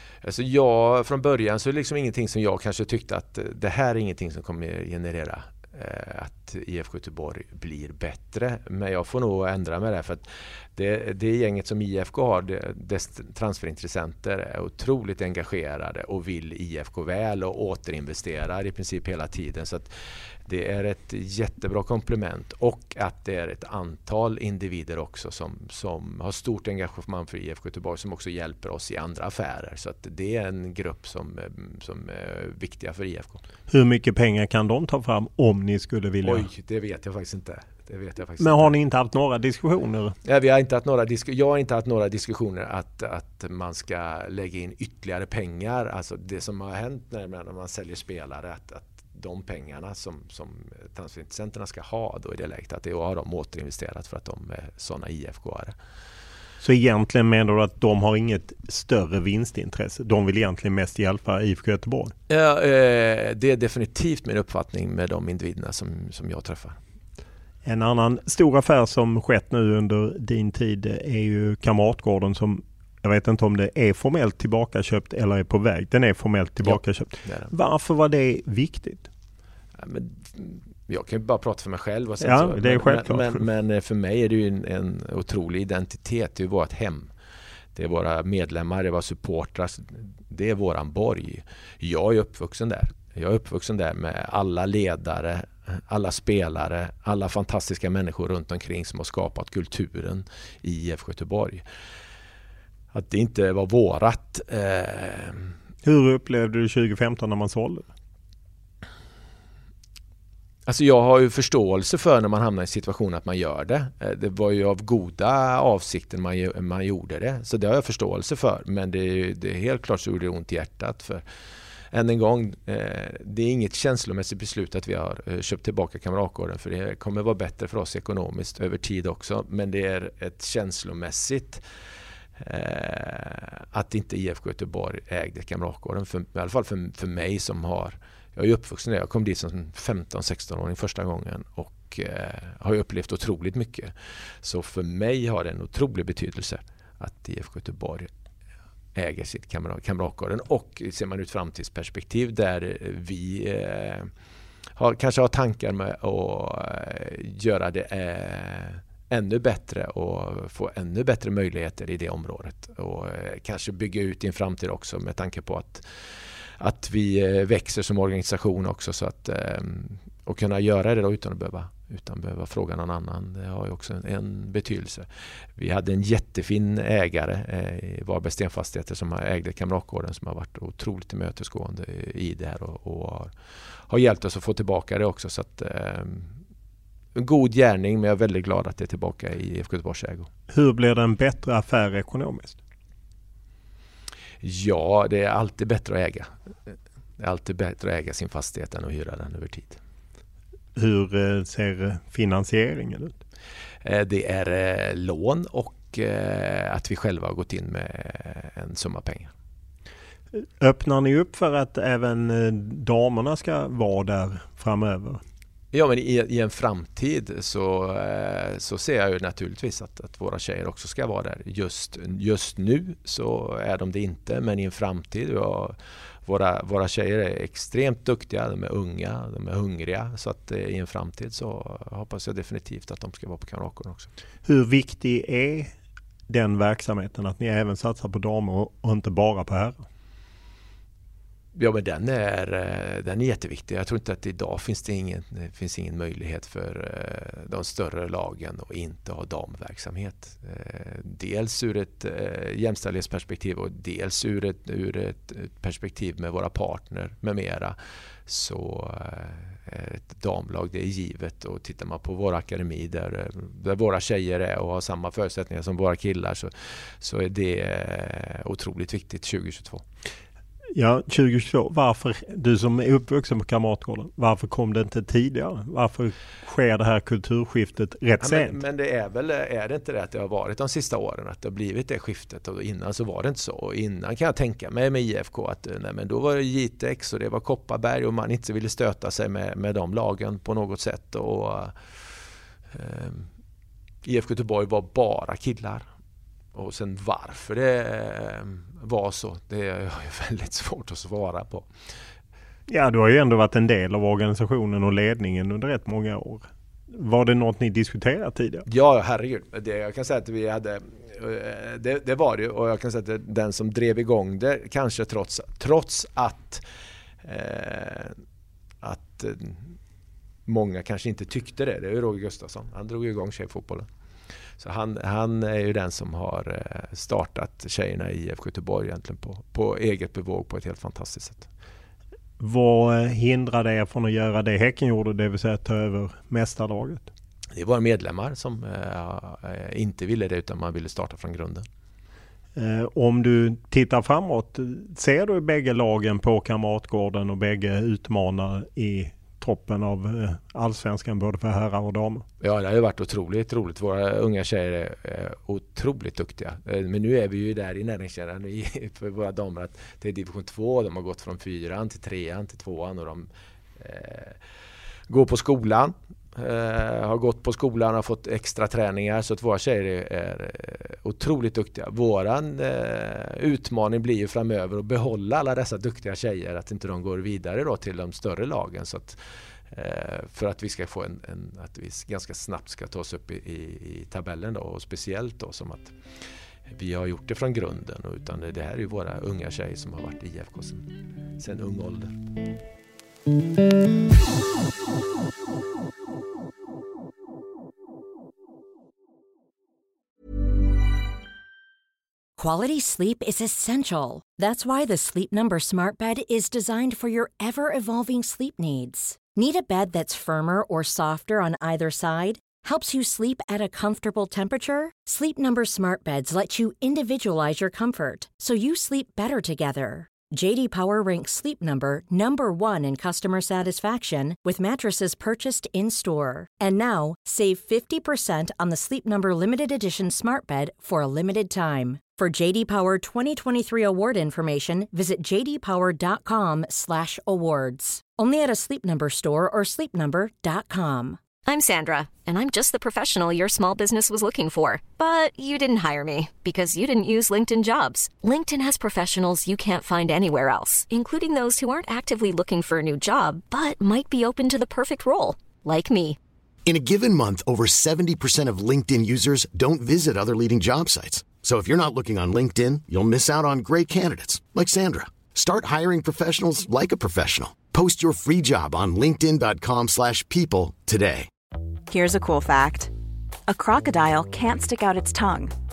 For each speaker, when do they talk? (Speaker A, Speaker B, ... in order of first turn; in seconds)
Speaker A: 0.2-33.4, 36.2-38.7, 40.2-55.8, 62.3-66.8, 76.6-77.5, 79.7-87.1, 87.7-101.6, 102.9-105.5, 110.7-121.2, 121.9-131.6, 132.4-148.1, 148.9-154.1, 154.8-183.3, 183.9-186.3, 187.1-190.3, 194.4-199.8, 203.8-209.3, 215.7-234.1, 241.5-269.8, 278.2-291.8, 292.7-293.3, 294.0-295.9, 296.5-301.7, 308.6-316.6, 317.2-318.2, 318.8-319.8, 320.4-323.9, 324.6-331.5, 337.5-341.6, 352.4-364.4, 365.1-386.0, 386.7-392.2
Speaker B: 33.7-36.5, 38.4-40.1, 56.6-62.1, 67.7-79.1, 82.2-83.4, 105.8-107.9, 190.5-192.6, 200.8-203.2, 210.3-215.2, 234.4-235.7, 236.3-239.8, 270.7-278.6, 302.7-308.6, 332.4-337.1, 342.6-352.2
Speaker C: 402.4-441.2
Speaker D: 441.4-456.2
Speaker E: 456.6-471.3
Speaker F: 471.9-472.9, 473.5-475.5